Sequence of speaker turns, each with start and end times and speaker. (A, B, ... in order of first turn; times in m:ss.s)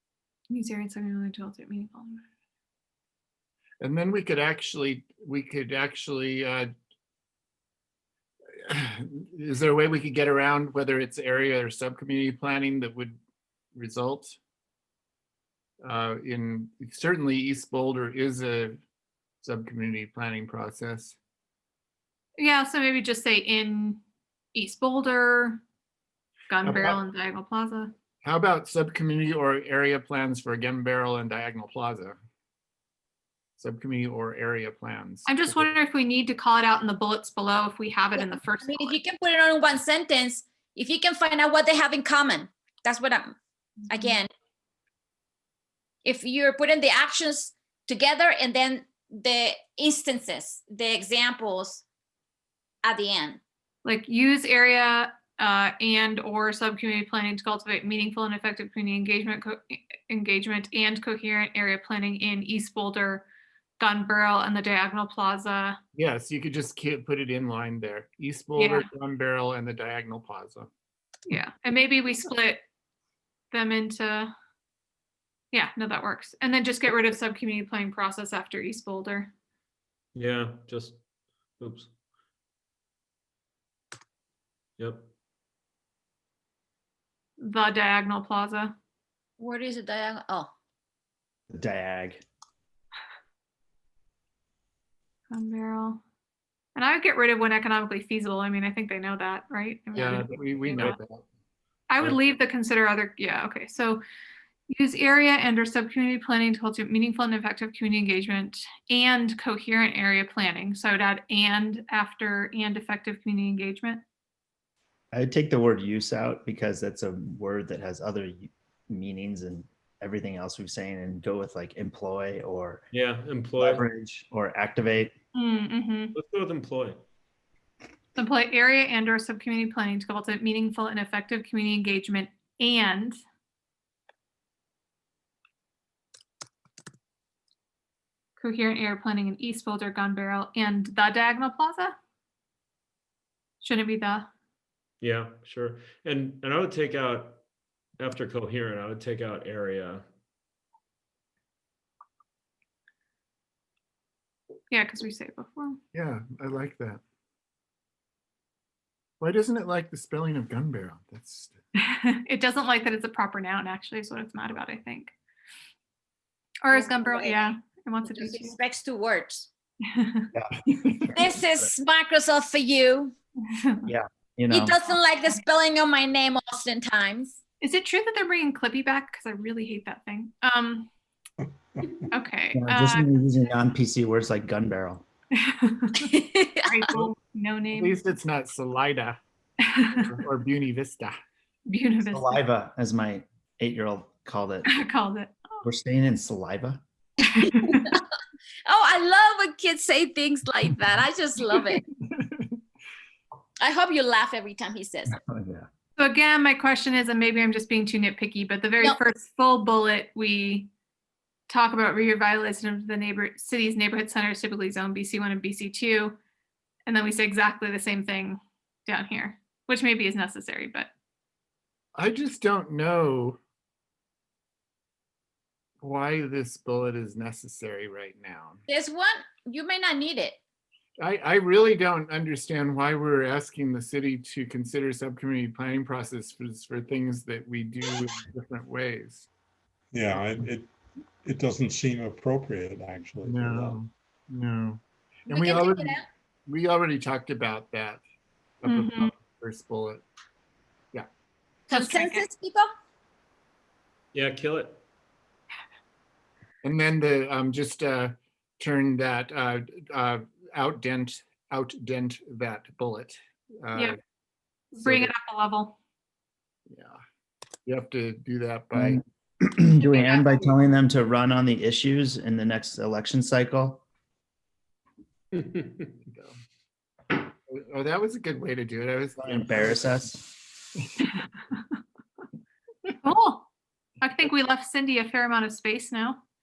0:00.5-0:02.2 A
0:03.8-0:06.7 B
0:08.6-0:13.2 B
0:13.7-0:14.4 B
0:15.8-0:18.8 B
0:19.4-0:21.2 B
0:22.4-0:24.0 A
0:24.5-0:25.6 A
0:26.5-0:27.9 A
0:26.6-0:27.0 B
0:28.2-0:32.2 B
0:33.6-0:35.7 B
0:35.3-0:39.0 A
0:38.2-0:43.4 C
0:43.9-0:44.3 C
0:46.0-0:51.8 C
0:52.8-0:53.4 C
0:53.8-1:03.3 A
1:03.8-1:05.8 A
1:05.9-1:10.7 B
1:08.6-1:08.9 A
1:11.3-1:12.6 A
1:13.5-1:14.3 A
1:15.5-1:19.3 A
1:20.1-1:21.0 D
1:21.6-1:21.9 D
1:24.8-1:25.1 D
1:27.4-1:28.8 A
1:29.4-1:30.5 C
1:31.5-1:32.2 E
1:35.3-1:36.0 A
1:36.8-1:41.0 A
1:39.9-1:41.2 B
1:41.9-1:44.0 A
1:44.7-1:54.0 A
1:55.1-2:02.9 E
2:02.9-2:03.9 D
2:03.6-2:05.1 E
2:05.3-2:06.1 A
2:06.1-2:07.0 D
2:08.2-2:13.2 A
2:18.4-2:22.0 A
2:23.6-2:24.3 A
2:25.0-2:27.4 D
2:28.0-2:30.1 D
2:34.7-2:35.8 A
2:35.9-2:37.0 B
2:39.2-2:41.6 B
2:41.8-2:45.1 A
2:46.6-2:48.6 A
2:46.7-2:47.5 C
2:48.1-2:49.5 C
2:49.8-2:50.3 A
2:50.3-2:51.7 E
2:51.2-2:53.1 C
2:53.5-2:53.9 A
2:53.9-2:54.7 E
2:54.5-2:57.4 C
2:57.6-3:00.9 A
3:02.1-3:03.1 A
3:02.5-3:05.0 E
3:05.4-3:06.0 A
3:06.0-3:06.8 C
3:06.6-3:08.0 A
3:07.7-3:09.2 B
3:09.6-3:10.1 A
3:09.9-3:11.2 B
3:11.7-3:12.4 A
3:12.1-3:14.7 E
3:14.7-3:15.6 A
3:15.6-3:16.8 E
3:17.4-3:18.0 C
3:17.4-3:18.0 A
3:18.7-3:21.8 C
3:22.0-3:22.6 B
3:23.6-3:25.2 C
3:25.1-3:25.7 E
3:26.0-3:30.7 A
3:31.5-3:36.2 A
3:36.9-3:40.9 A
3:42.0-3:43.4 B
3:45.8-3:48.6 B
3:48.7-3:50.4 C
3:51.0-3:59.3 B
3:59.9-4:00.7 F
4:01.2-4:03.8 F
4:03.2-4:08.0 B
4:05.3-4:06.1 C
4:08.6-4:10.0 B
4:08.6-4:09.1 A
4:11.7-4:12.7 C
4:11.7-4:12.3 A
4:14.1-4:14.8 D
4:16.6-4:24.0 B
4:24.7-4:25.8 A
4:24.8-4:25.1 B
4:26.7-4:27.0 B
4:27.6-4:29.0 B
4:28.8-4:33.8 E
4:29.8-4:30.5 C
4:36.1-4:36.4 B
4:37.5-4:40.0 B
4:39.2-4:40.2 E
4:43.0-4:43.5 A
4:44.0-4:46.2 A